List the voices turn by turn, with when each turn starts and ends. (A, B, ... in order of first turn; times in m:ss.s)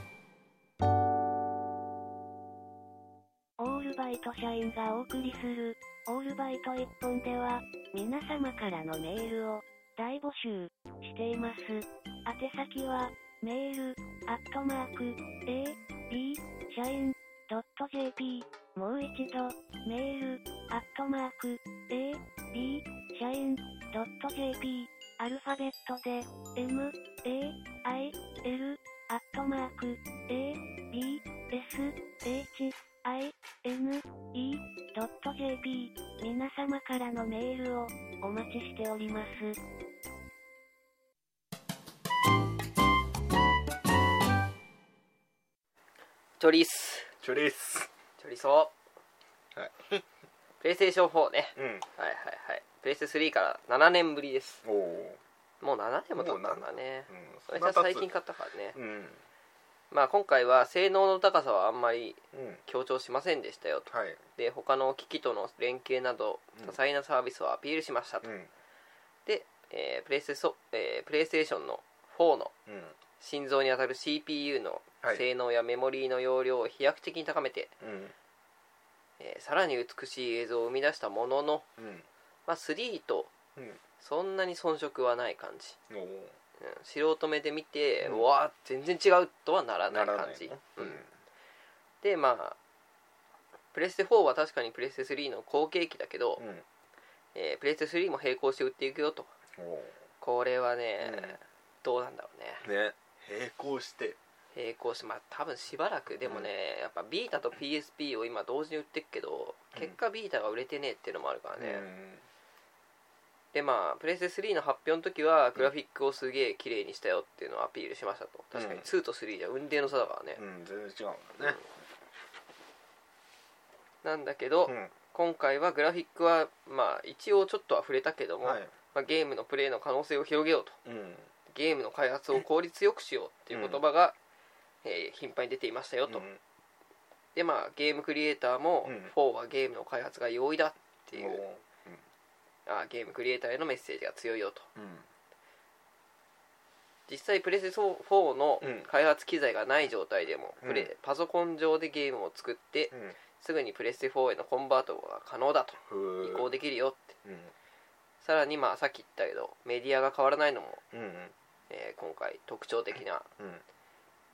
0:03.6-0:39.6 A
0:46.4-0:47.1 B
0:47.2-0:47.9 C
0:48.2-0:48.7 B
0:49.5-0:50.0 C
0:50.6-0:54.6 B
0:51.6-0:51.8 C
0:54.6-0:55.2 C
0:55.6-0:58.8 B
0:56.2-0:58.1 C
0:58.7-0:59.2 C
0:59.9-1:08.3 B
1:02.3-1:02.6 C
1:03.9-1:04.2 C
1:08.2-1:08.5 C
1:09.3-1:12.5 B
1:12.7-1:12.9 C
1:13.2-1:17.7 B
1:17.8-1:18.1 C
1:19.2-1:21.6 B
1:21.8-1:22.1 C
1:22.5-1:23.3 B
1:24.0-1:25.8 B
1:25.9-1:26.3 C
1:26.6-1:31.0 B
1:28.0-1:28.3 C
1:29.9-1:31.1 C
1:32.0-1:32.6 B
1:33.7-1:36.4 B
1:36.4-1:36.6 C
1:37.4-1:39.3 B
1:39.6-1:40.0 C
1:40.2-1:42.6 B
1:41.0-1:41.4 C
1:42.6-1:44.2 C
1:44.5-1:51.9 B
1:51.6-1:52.2 C
1:53.5-2:00.4 B
1:58.5-1:58.8 C
2:00.4-2:01.6 C
2:04.0-2:10.8 B
2:04.7-2:04.9 C
2:08.4-2:08.7 C
2:10.8-2:11.3 C
2:11.5-2:14.1 B
2:13.5-2:13.8 C
2:14.8-2:16.3 B
2:16.1-2:16.4 C
2:17.4-2:21.4 B
2:18.8-2:19.1 C
2:21.1-2:22.0 C
2:22.7-2:24.7 B
2:24.8-2:25.1 C
2:27.1-2:37.2 B
2:28.6-2:28.9 C
2:30.6-2:30.9 C
2:32.9-2:33.2 C
2:35.8-2:36.5 C
2:37.2-2:37.5 C
2:38.2-2:40.8 B
2:40.9-2:41.3 C
2:41.7-2:43.3 B
2:43.4-2:43.6 C